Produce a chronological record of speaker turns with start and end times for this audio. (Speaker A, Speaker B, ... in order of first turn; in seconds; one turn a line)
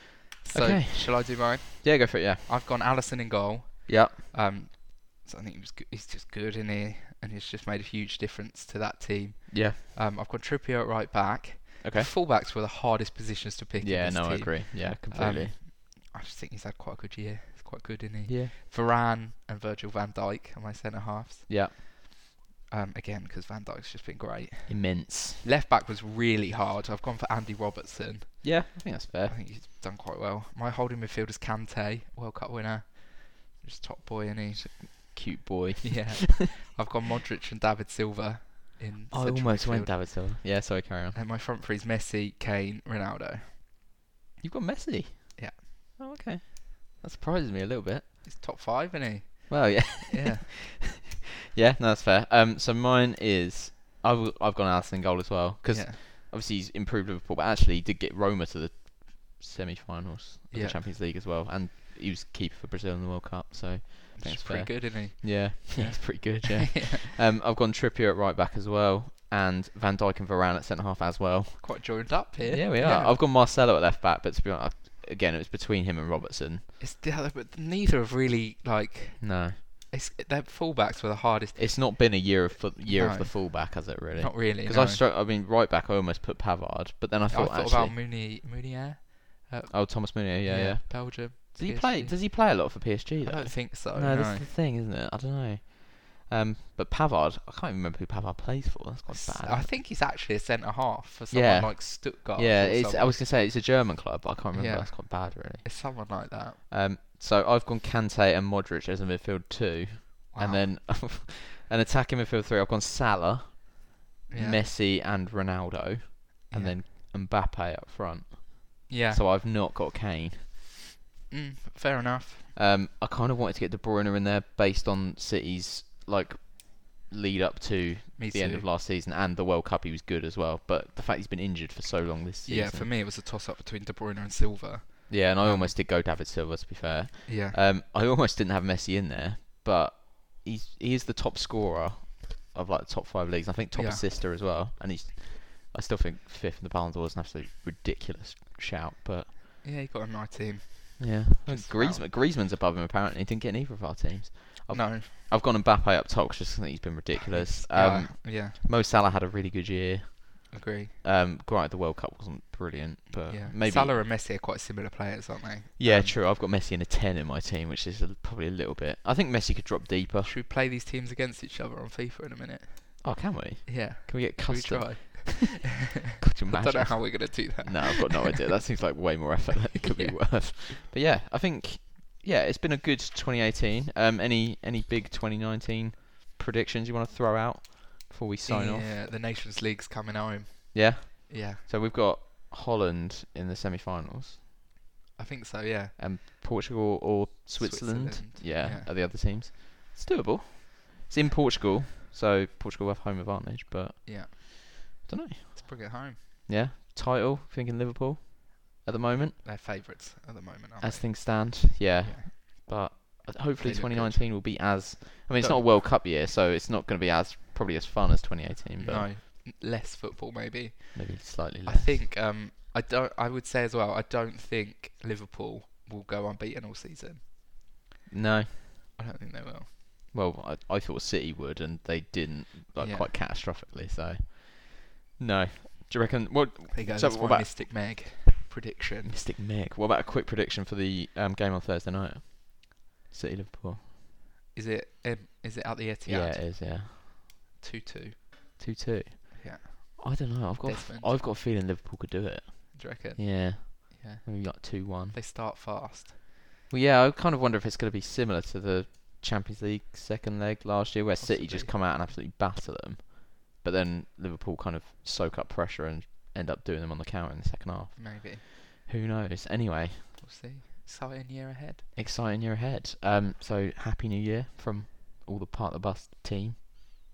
Speaker A: 0.4-35.2
Speaker B: 0.5-2.5
Speaker B: 3.9-4.2
Speaker B: 9.5-9.8
Speaker B: 11.8-12.1
Speaker B: 13.8-15.5
Speaker B: 18.2-18.5
Speaker B: 21.5-21.8
Speaker B: 24.7-25.4
Speaker B: 28.4-29.4
Speaker B: 34.9-36.4
Speaker A: 35.8-43.6
Speaker B: 39.1-41.2
Speaker B: 44.4-48.2
Speaker A: 45.4-45.6
Speaker A: 48.2-50.5
Speaker B: 49.5-76.7
Speaker A: 55.7-56.0
Speaker A: 60.5-60.9
Speaker A: 64.2-66.9
Speaker A: 71.6-73.2
Speaker A: 76.8-82.3
Speaker B: 79.2-79.6
Speaker B: 81.5-88.0
Speaker A: 82.9-85.0
Speaker A: 87.3-94.5
Speaker B: 89.7-99.7
Speaker A: 99.1-103.3
Speaker B: 101.3-120.5
Speaker A: 104.5-106.6
Speaker A: 110.3-110.7
Speaker A: 114.3-114.6
Speaker A: 116.5-116.8
Speaker A: 118.9-119.2
Speaker A: 121.3-122.5
Speaker B: 122.5-132.9
Speaker A: 128.2-128.7
Speaker A: 132.4-135.8
Speaker B: 135.1-149.3
Speaker A: 137.2-137.6
Speaker A: 143.7-144.1
Speaker A: 149.6-152.1
Speaker B: 151.0-163.9
Speaker A: 154.7-155.1
Speaker A: 157.3-158.6
Speaker A: 160.5-161.0
Speaker A: 163.2-166.2
Speaker B: 165.8-170.3
Speaker A: 170.2-175.7
Speaker B: 173.0-188.9
Speaker A: 176.2-178.3
Speaker A: 179.8-180.4
Speaker A: 188.4-191.6
Speaker B: 190.7-194.4
Speaker A: 195.2-195.9
Speaker B: 195.9-209.4
Speaker A: 197.6-198.9
Speaker A: 204.0-204.3
Speaker A: 205.6-206.2
Speaker A: 209.1-212.3
Speaker B: 210.8-219.1
Speaker A: 213.6-214.8
Speaker A: 215.3-215.7
Speaker A: 218.8-227.2
Speaker B: 220.9-222.1
Speaker B: 228.1-228.6
Speaker A: 228.9-229.8
Speaker B: 230.1-237.5
Speaker A: 232.8-233.1
Speaker A: 236.7-239.2
Speaker B: 239.0-243.8
Speaker A: 244.5-246.6
Speaker B: 246.1-247.1
Speaker A: 247.6-248.6
Speaker B: 248.6-255.2
Speaker A: 249.3-251.2
Speaker A: 252.7-256.2
Speaker B: 256.7-270.1
Speaker A: 261.2-261.8
Speaker A: 267.9-268.4
Speaker A: 270.2-271.9
Speaker B: 271.9-276.6